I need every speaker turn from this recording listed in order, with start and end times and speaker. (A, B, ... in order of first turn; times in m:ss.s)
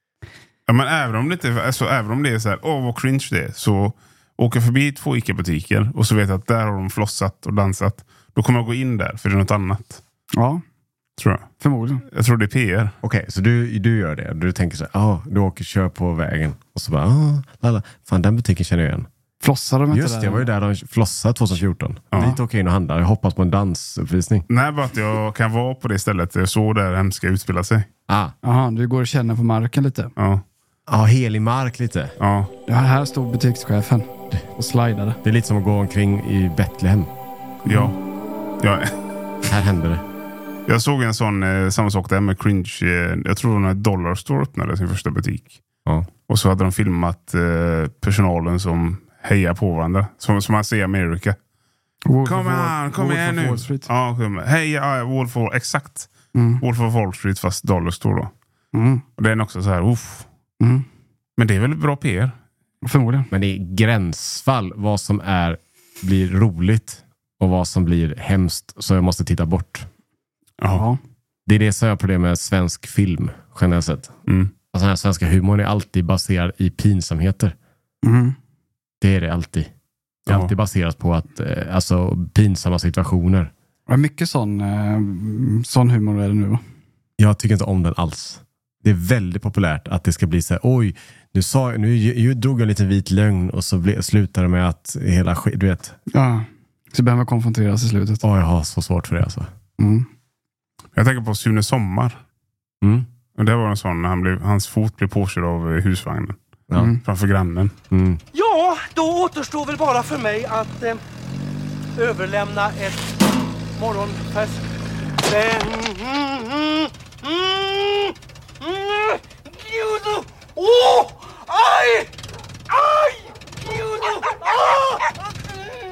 0:00.7-0:10.0 A
0:10.3-0:10.6 B
0:11.2-0:11.5 A
0:11.6-0:12.0 B
0:12.1-0:12.9 A
0:13.0-0:19.1 C
0:19.4-0:20.5 B
0:19.9-0:24.5 C
0:24.5-0:27.9 A
0:28.1-0:28.3 C
0:28.4-0:30.1 B
0:30.2-0:30.4 A
0:30.9-0:32.1 C
0:32.2-0:32.5 A
0:32.7-0:35.2 B
0:35.2-0:37.1 C
0:37.6-0:37.9 B
0:37.7-0:38.0 A
0:38.6-0:38.9 A
0:39.4-0:40.0 C
0:40.7-0:45.6 A
0:46.3-0:51.4 A
0:52.0-0:53.9 B
0:52.2-0:58.3 A
0:56.3-0:56.6 B
0:58.7-0:59.0 B
0:59.2-1:00.3 A
1:00.6-1:00.8 B
1:01.4-1:02.3 A
1:02.8-1:03.3 B
1:03.3-1:09.9 C
1:10.7-1:11.0 B
1:11.5-1:14.1 C
1:14.3-1:14.5 A
1:14.7-1:17.5 C
1:18.0-1:18.4 B
1:19.0-1:19.7 C
1:20.3-1:20.5 A
1:20.3-1:23.5 C
1:23.9-1:26.6 B
1:27.2-1:36.0 C
1:36.1-1:38.2 B
1:38.2-1:39.5 C
1:39.8-1:40.1 B
1:40.9-1:42.2 A
1:42.8-1:43.1 C
1:43.4-1:46.4 A
1:46.7-1:47.0 C
1:46.8-1:47.0 B
1:47.0-1:47.7 A
1:47.9-1:48.2 C
1:48.3-1:51.0 D
1:52.0-1:54.7 D
1:55.2-2:02.1 D
2:02.7-2:05.0 D